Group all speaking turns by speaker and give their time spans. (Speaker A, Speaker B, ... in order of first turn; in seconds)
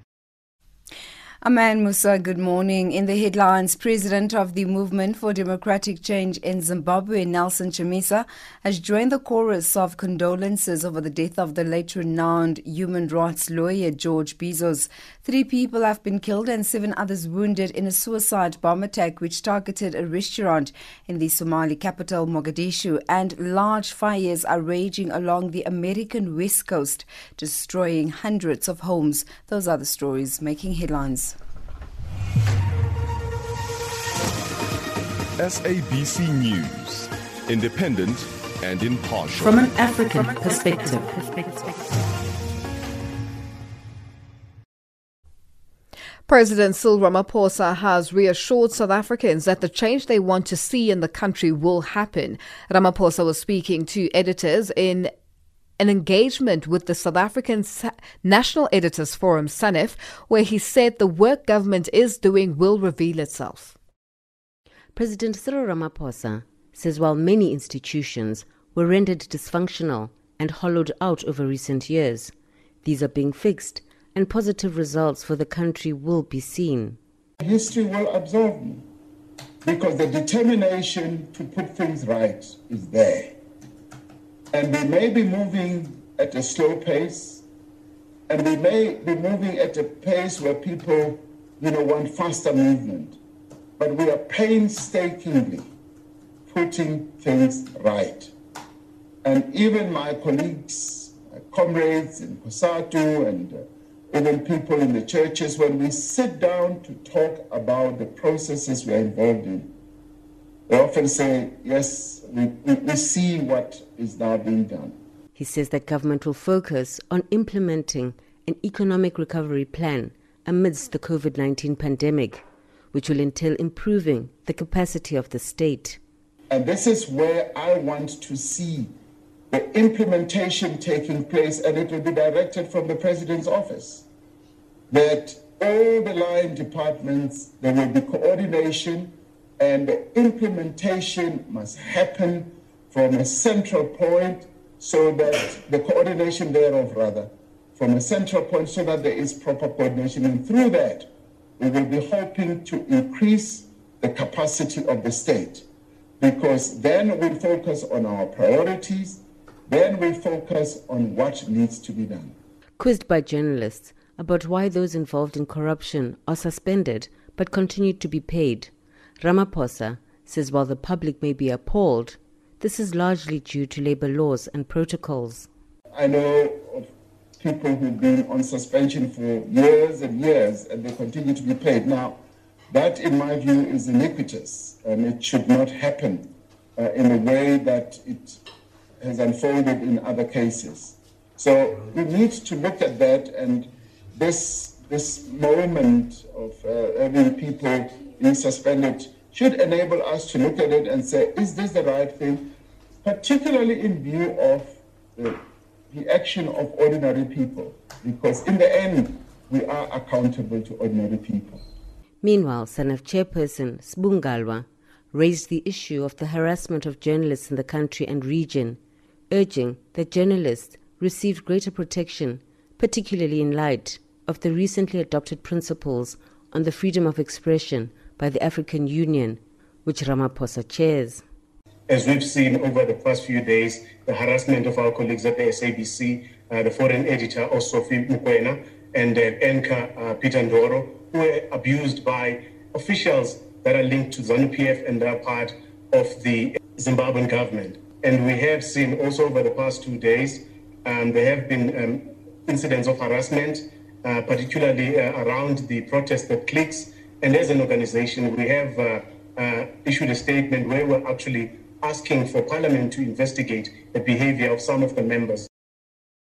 Speaker A: 1.4-31.4
Speaker B: 35.4-39.7
Speaker C: 39.4-42.0
Speaker D: 46.3-55.1, 55.8-63.8
Speaker E: 64.9-72.3, 72.8-77.0, 115.4-126.0, 162.8-175.5, 212.2-218.8, 219.3-231.2
Speaker F: 77.4-78.8, 79.6-83.3, 84.5-87.4, 88.3-93.2, 93.8-95.7, 96.5-98.3, 99.2-109.7, 110.7-114.9, 126.5-128.9, 129.5-134.0, 134.9-155.6, 156.2-162.3, 175.9-182.2, 182.7-188.4, 189.0-202.5, 203.0-205.4, 205.9-211.6
Speaker G: 231.9-265.5